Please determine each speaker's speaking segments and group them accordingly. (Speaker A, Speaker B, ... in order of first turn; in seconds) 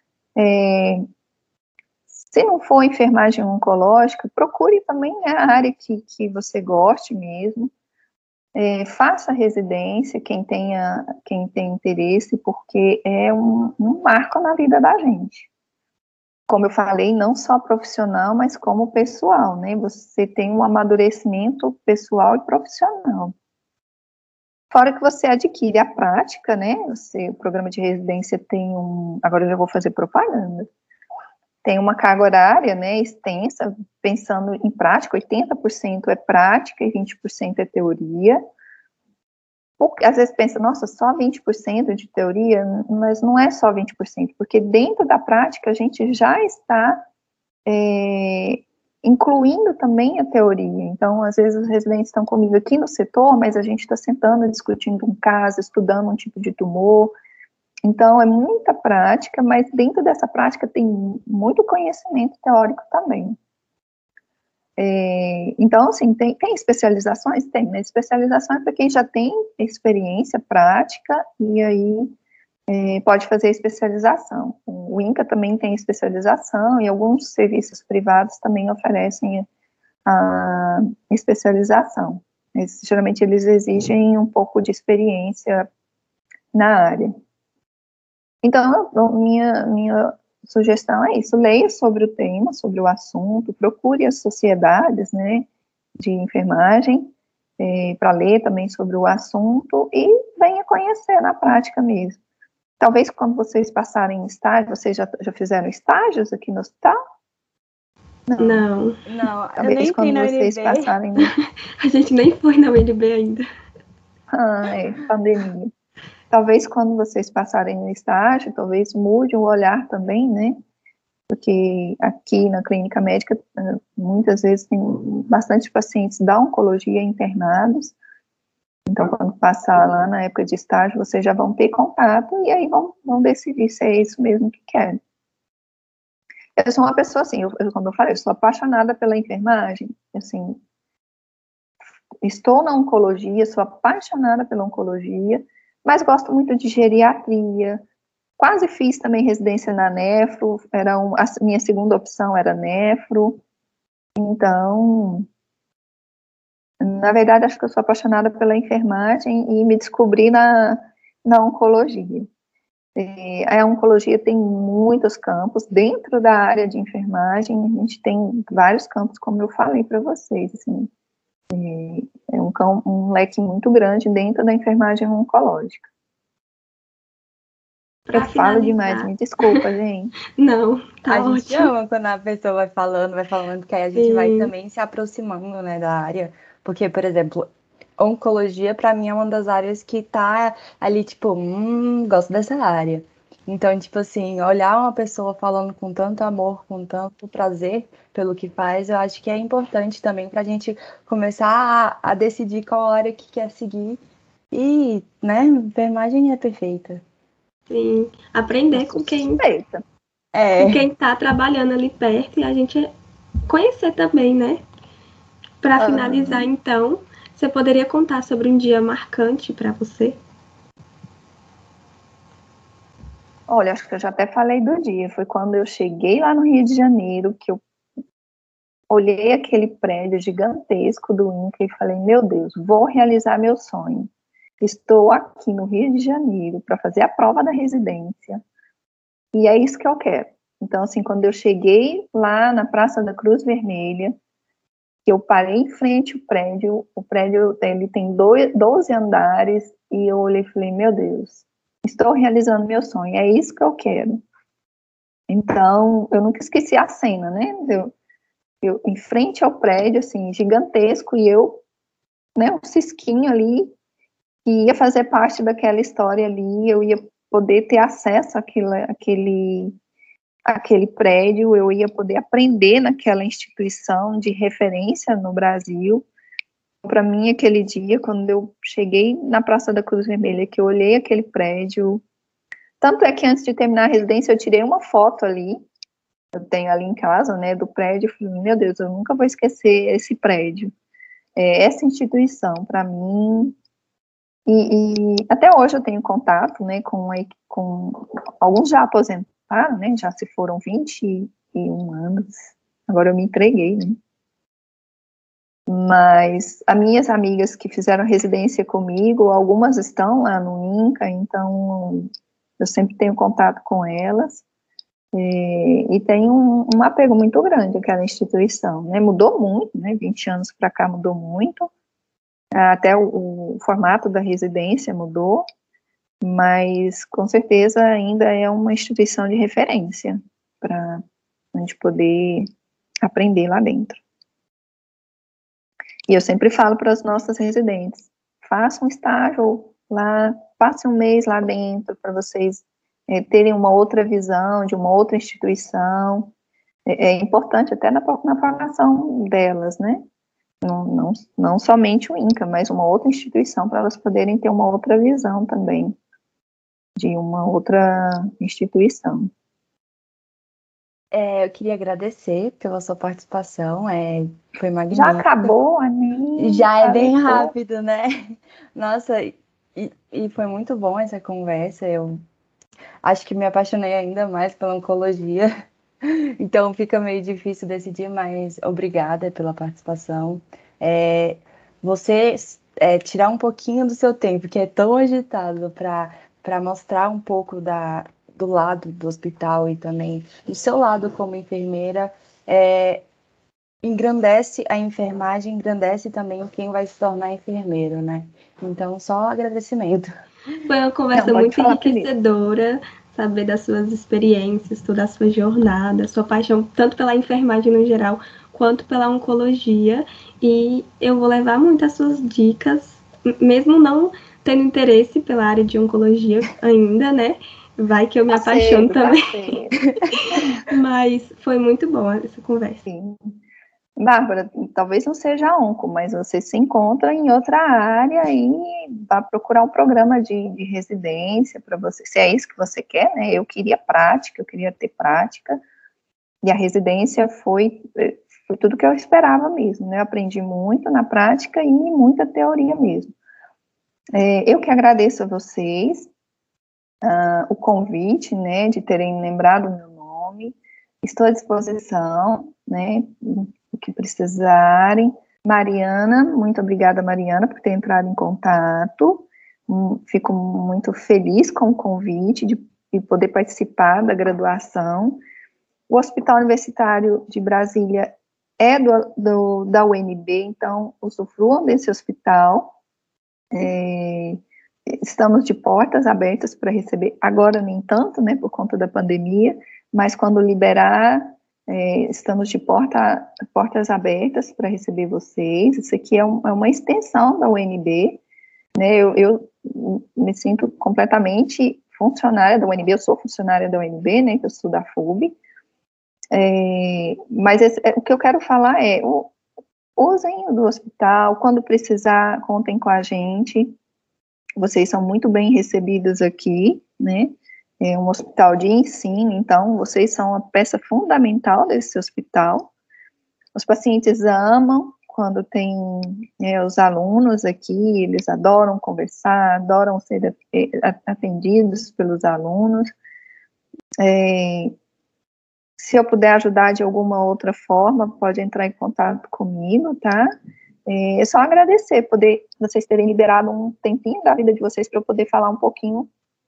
Speaker A: 0.4-1.1, 2.2-7.7, 8.6-15.5, 16.5-23.3, 24.7-30.7, 31.6-38.4, 39.8-47.0, 47.7-57.1, 57.9-63.4, 64.8-72.2, 72.7-79.5, 80.1-85.7, 86.5-87.2, 88.4-95.5, 96.0-102.2, 102.8-107.0, 108.3-108.7, 109.6-111.3, 114.3-115.7, 116.3-120.6, 121.3-128.0, 128.9-135.0, 136.6-140.6, 142.2-147.8, 148.4-153.4, 154.2-155.3, 156.8-162.3, 162.9-170.9, 171.5-175.9, 178.1-180.1, 209.4-209.8, 215.8-216.5, 223.5-227.6, 228.9-234.1, 234.6-238.4, 239.3-244.1, 245.1-254.2, 255.3-257.9, 258.6-261.6, 262.4-263.7, 264.4-269.8, 270.5-276.1, 276.8-282.0, 282.8-285.6, 286.4-290.7, 291.4-293.6, 294.5-304.0, 305.7-314.4, 315.1-321.7, 322.5-325.4, 326.2-331.0, 331.5-332.5, 333.0-334.0, 336.1-346.3, 346.9-350.1, 350.6-356.0, 357.0-359.3, 364.9-367.5, 401.1-402.1, 418.3-419.8, 422.9-423.4, 424.0-435.6, 436.4-443.1, 444.1-446.1, 447.0-465.2, 465.9-472.8, 473.5-488.2, 488.8-495.4, 496.3-499.3, 500.0-503.8, 504.6-512.7, 513.5-522.9, 524.0-524.8, 525.8-530.3, 530.9-536.1
Speaker B: 108.4-109.0, 111.8-113.4, 178.1-179.6, 180.4-181.7, 183.9-184.5, 207.7-209.4, 210.6-212.9, 213.5-214.6, 215.6-220.2, 400.6-419.6, 420.1-422.8
Speaker C: 109.1-111.0, 181.1-187.5, 188.0-207.0, 208.8-209.0, 210.3-210.8, 361.1-365.5, 366.4-372.2, 373.0-393.1, 393.8-400.1